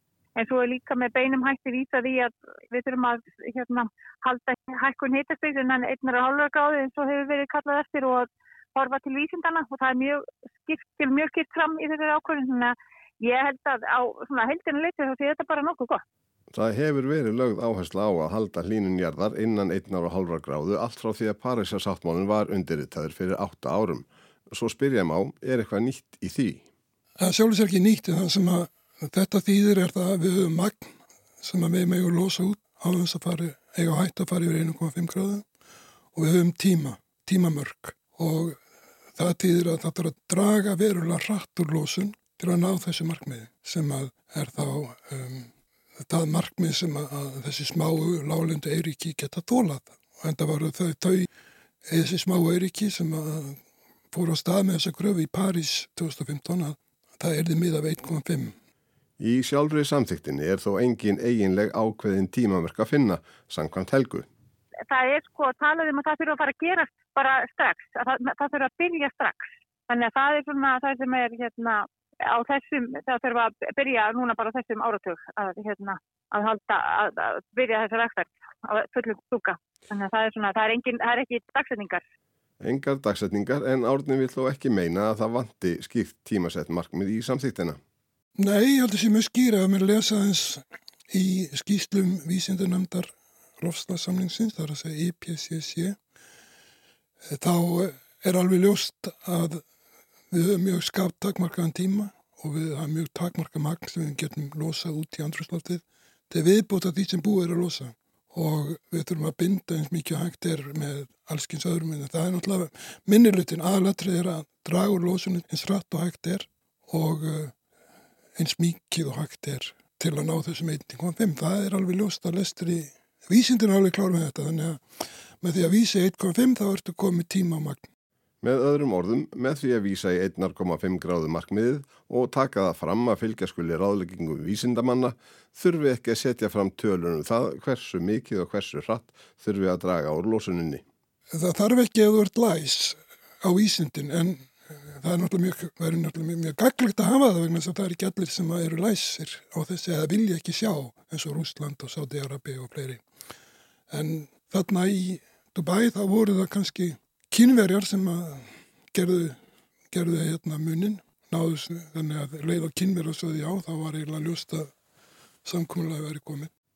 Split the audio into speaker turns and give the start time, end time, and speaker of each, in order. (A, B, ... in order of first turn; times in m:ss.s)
0:00.4-0:16.0 A
0:16.5-0:26.6 B
0:27.2-0:35.5 C
0:36.1-0:38.6 C
0:39.2-0:45.5 C
0:46.1-0:51.3 C
0:51.9-0:53.6 C
0:54.1-0:58.5 C
0:59.2-1:04.3 B
1:04.9-1:22.0 A
1:22.6-1:27.8 B
1:28.4-1:36.0 C
1:37.3-1:39.6 C
1:40.3-1:57.6 C
1:58.4-2:04.8 C
2:05.4-2:07.9 C
2:08.4-2:20.8 B
2:21.3-2:33.0 C
2:33.9-2:39.4 C
2:39.9-2:44.7 C
2:45.4-2:46.5 C